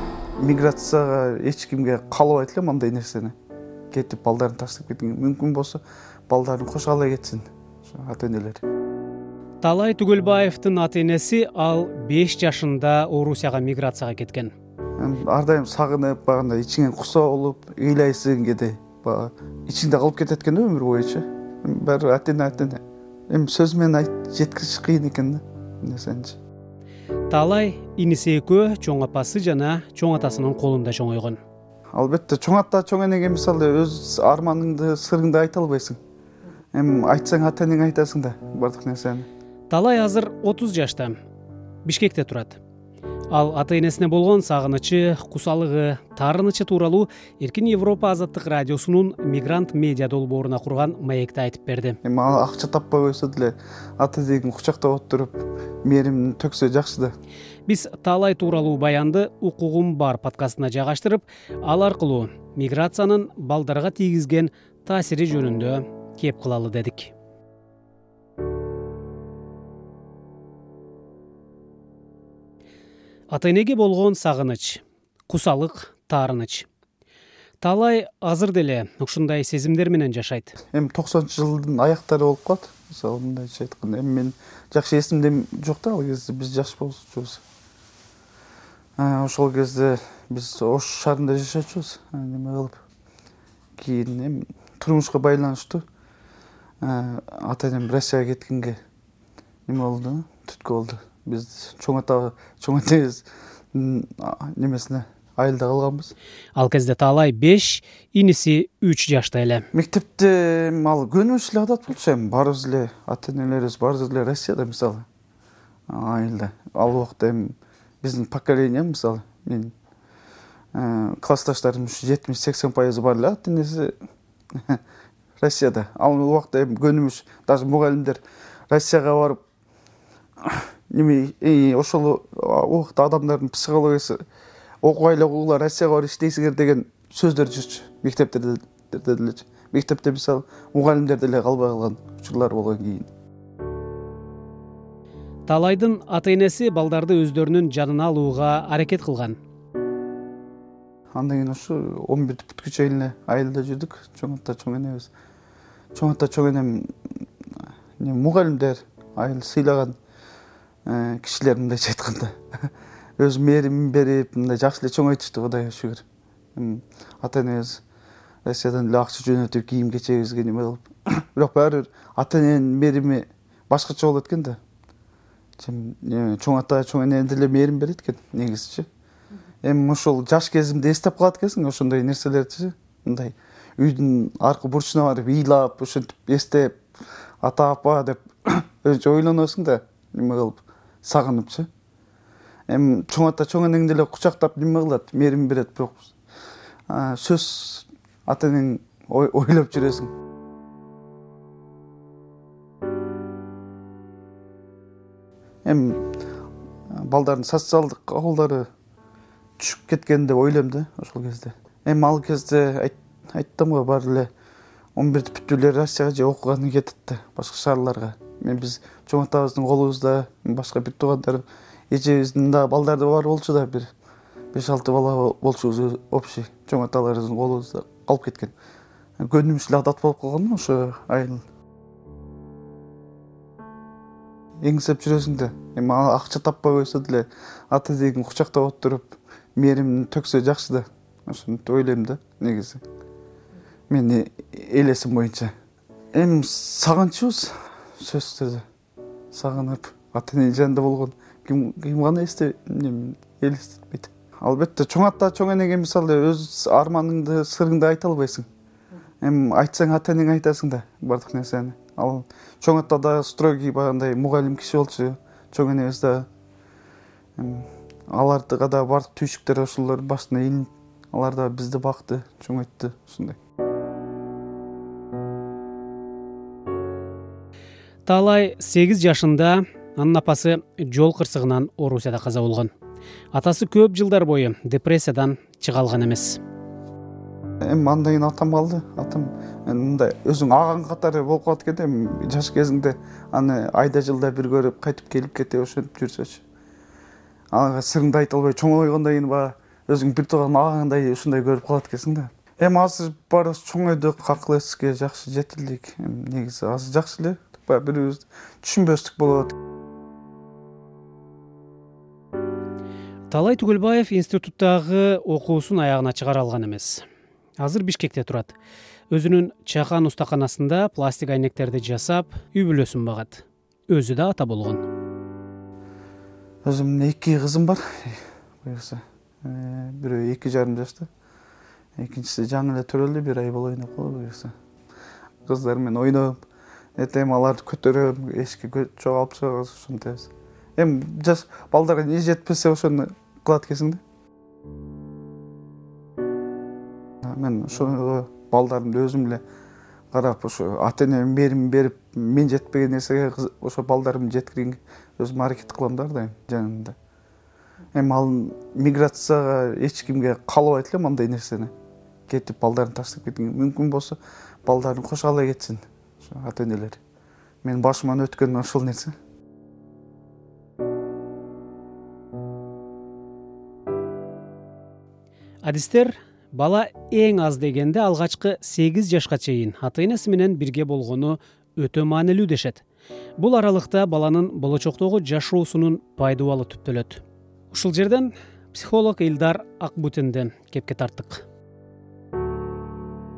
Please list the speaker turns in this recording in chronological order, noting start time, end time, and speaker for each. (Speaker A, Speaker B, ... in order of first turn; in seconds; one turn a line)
Speaker A: 0.4-3.4
Speaker A: 3.9-8.6
Speaker B: 9.6-14.5
Speaker A: 15.0-26.4
Speaker B: 27.3-31.4
Speaker A: 31.9-36.0
Speaker A: 36.7-39.3
Speaker B: 39.7-41.1
Speaker B: 41.9-42.6
Speaker B: 43.3-52.0
Speaker A: 52.0-57.1
Speaker B: 57.7-67.1
Speaker B: 73.3-76.7
Speaker B: 77.6-80.5
Speaker A: 80.7-87.4
Speaker A: 89.0-92.8
Speaker A: 93.8-95.8
Speaker A: 96.8-98.8
Speaker A: 99.7-106.1
Speaker B: 106.5-109.7
Speaker A: 109.7-115.0
Speaker A: 115.9-119.7
Speaker A: 120.7-123.9
Speaker A: 125.4-129.4
Speaker A: 130.4-134.2
Speaker A: 134.8-143.1
Speaker B: 145.5-149.4
Speaker A: 151.1-155.1
Speaker A: 155.9-156.9
Speaker A: 158.0-160.0
Speaker A: 160.9-162.4
Speaker A: 163.2-166.0
Speaker A: 166.6-167.8
Speaker A: 168.4-174.6
Speaker A: 175.6-178.9
Speaker A: 179.6-186.8
Speaker A: 187.4-191.7
Speaker A: 192.7-196.1
Speaker A: 196.9-200.1
Speaker A: 205.7-206.0
Speaker A: 206.9-208.7
Speaker A: 209.6-214.3
Speaker A: 215.0-223.9
Speaker A: 224.5-228.5
Speaker A: 229.2-231.4
Speaker A: 234.6-242.8
Speaker A: 243.9-245.5
Speaker A: 246.1-248.7
Speaker A: 249.3-258.5
Speaker A: 259.2-266.3
Speaker A: 267.4-273.4
Speaker B: 278.1-282.7
Speaker B: 283.3-286.4
Speaker A: 287.6-296.4
Speaker A: 297.5-309.6
Speaker B: 313.3-317.0
Speaker B: 317.6-318.6
Speaker B: 319.1-324.8
Speaker A: 326.6-331.1
Speaker A: 332.0-334.5
Speaker A: 335.4-336.4
Speaker A: 337.0-344.0
Speaker A: 347.2-349.4
Speaker A: 350.1-356.9
Speaker A: 357.9-361.7
Speaker A: 362.3-367.0
Speaker A: 367.6-369.1
Speaker B: 375.6-382.8
Speaker B: 383.4-391.4